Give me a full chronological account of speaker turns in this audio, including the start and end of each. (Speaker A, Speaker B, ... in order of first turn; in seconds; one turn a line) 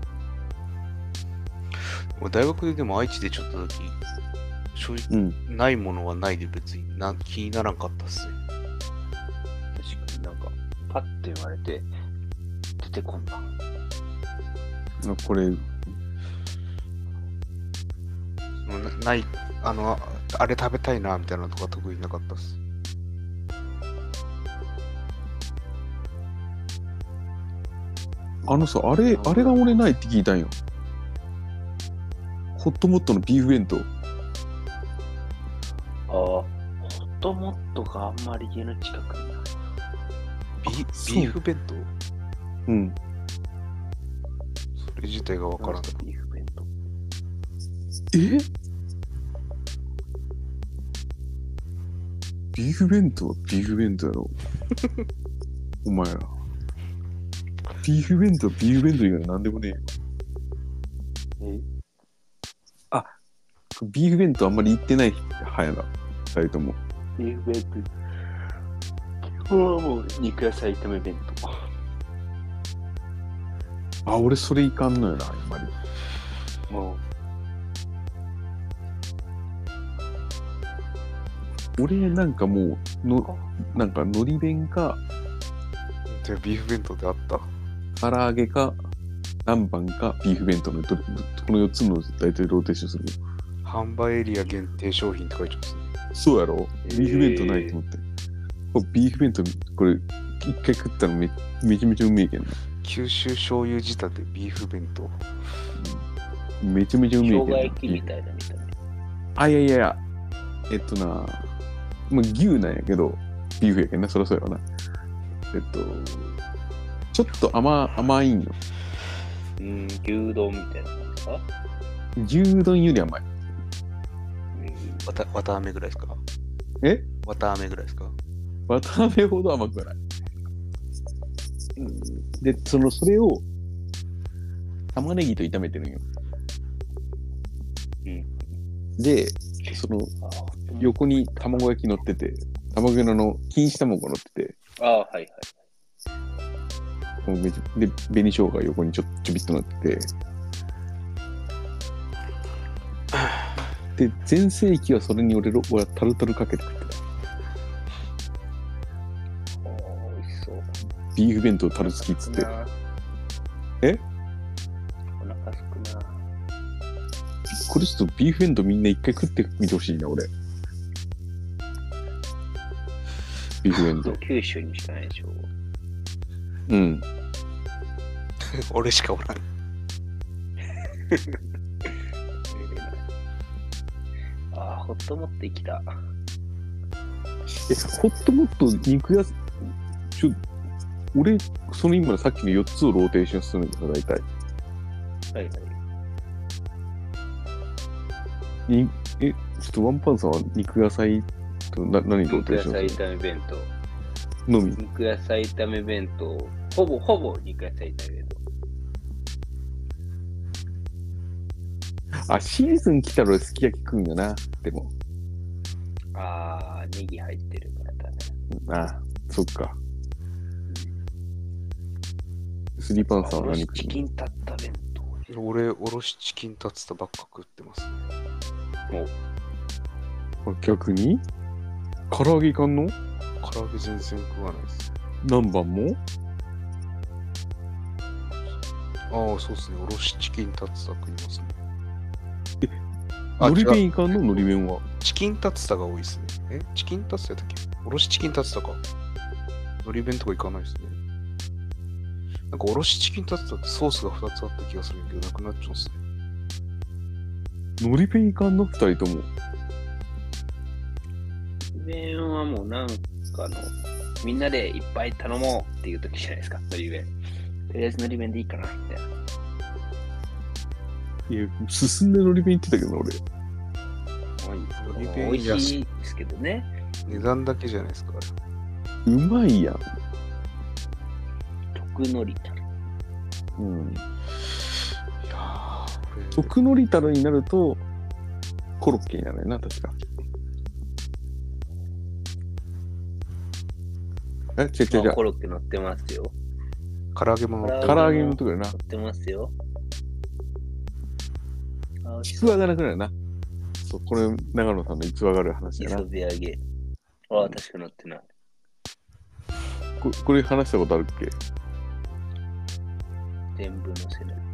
Speaker A: 2.2-4.0
Speaker A: 4.7-8.4
Speaker B: 9.7-11.9
Speaker B: 12.8-13.5
Speaker C: 15.0-15.7
Speaker A: 18.6-22.6
Speaker C: 28.4-30.6
Speaker B: 28.5-29.8
Speaker C: 32.5-33.9
Speaker B: 36.1-39.7
Speaker A: 40.6-41.9
Speaker C: 40.7-41.4
Speaker C: 42.7-43.0
Speaker A: 44.8-46.0
Speaker B: 45.6-46.7
Speaker C: 48.1-48.5
Speaker C: 52.5-54.3
Speaker C: 55.8-56.3
Speaker C: 57.8-59.8
Speaker B: 61.4-61.6
Speaker C: 63.8-66.8
Speaker B: 67.2-67.9
Speaker B: 69.2-71.5
Speaker C: 74.0-75.7
Speaker B: 76.7-77.0
Speaker C: 81.8-85.0
Speaker B: 83.2-83.5
Speaker A: 86.1-87.5
Speaker C: 88.0-88.8
Speaker C: 89.5-93.2
Speaker A: 93.6-95.9
Speaker C: 96.1-98.0
Speaker B: 96.8-97.8
Speaker C: 98.7-102.6
Speaker A: 102.8-105.2
Speaker C: 105.8-106.0
Speaker C: 106.6-108.0
Speaker B: 107.2-108.7
Speaker C: 109.4-110.0
Speaker C: 110.7-111.5
Speaker C: 112.1-114.6
Speaker C: 115.5-116.4
Speaker C: 117.1-118.5
Speaker B: 119.6-121.5
Speaker C: 122.2-123.2
Speaker B: 124.5-125.1
Speaker A: 125.0-126.2
Speaker C: 126.8-127.1
Speaker A: 127.2-128.2
Speaker C: 128.7-130.0
Speaker B: 131.8-132.2
Speaker C: 132.4-133.4
Speaker C: 134.9-136.1
Speaker B: 138.1-138.3
Speaker C: 139.0-140.1
Speaker B: 139.7-140.9
Speaker C: 140.8-144.6
Speaker B: 144.8-145.5
Speaker C: 147.2-150.1
Speaker C: 154.0-157.0
Speaker B: 159.6-160.7
Speaker C: 161.1-162.5
Speaker B: 161.8-162.7
Speaker B: 165.2-166.2
Speaker C: 167.5-170.3
Speaker C: 173.6-174.2
Speaker B: 173.8-175.5
Speaker C: 176.7-177.0
Speaker A: 178.4-179.4
Speaker B: 181.1-181.4
Speaker B: 182.5-183.0
Speaker B: 184.5-185.9
Speaker C: 187.6-189.4
Speaker C: 190.1-190.4
Speaker C: 191.1-194.3
Speaker B: 195.3-195.8
Speaker C: 198.7-203.0
Speaker B: 202.3-203.7
Speaker C: 204.5-204.8
Speaker B: 204.8-208.4
Speaker C: 212.2-214.9
Speaker B: 216.1-218.3
Speaker C: 218.5-219.8
Speaker B: 220.7-221.0
Speaker C: 222.8-224.0
Speaker B: 223.0-225.2
Speaker A: 225.3-228.0
Speaker C: 230.4-231.2
Speaker C: 232.1-232.9
Speaker A: 233.4-234.9
Speaker C: 235.2-236.0
Speaker A: 239.1-241.6
Speaker A: 243.4-244.5
Speaker C: 243.4-244.8
Speaker A: 245.0-248.8
Speaker A: 249.8-251.0
Speaker A: 252.5-256.0
Speaker C: 257.8-259.3
Speaker B: 261.7-267.1
Speaker B: 267.7-269.1
Speaker C: 271.3-273.2
Speaker B: 274.4-276.7
Speaker A: 274.8-275.8
Speaker A: 277.1-278.3
Speaker C: 279.1-279.8
Speaker B: 281.7-282.6
Speaker C: 283.6-284.0
Speaker A: 285.3-286.5
Speaker C: 286.4-287.8
Speaker C: 288.8-289.9
Speaker C: 294.6-295.2
Speaker B: 294.9-296.3
Speaker A: 297.1-298.1
Speaker B: 297.6-299.5
Speaker C: 297.8-298.8
Speaker B: 302.0-302.6
Speaker C: 302.3-303.1
Speaker C: 303.8-306.1
Speaker B: 305.8-306.6
Speaker B: 307.3-308.3
Speaker C: 310.0-311.3
Speaker B: 313.6-314.4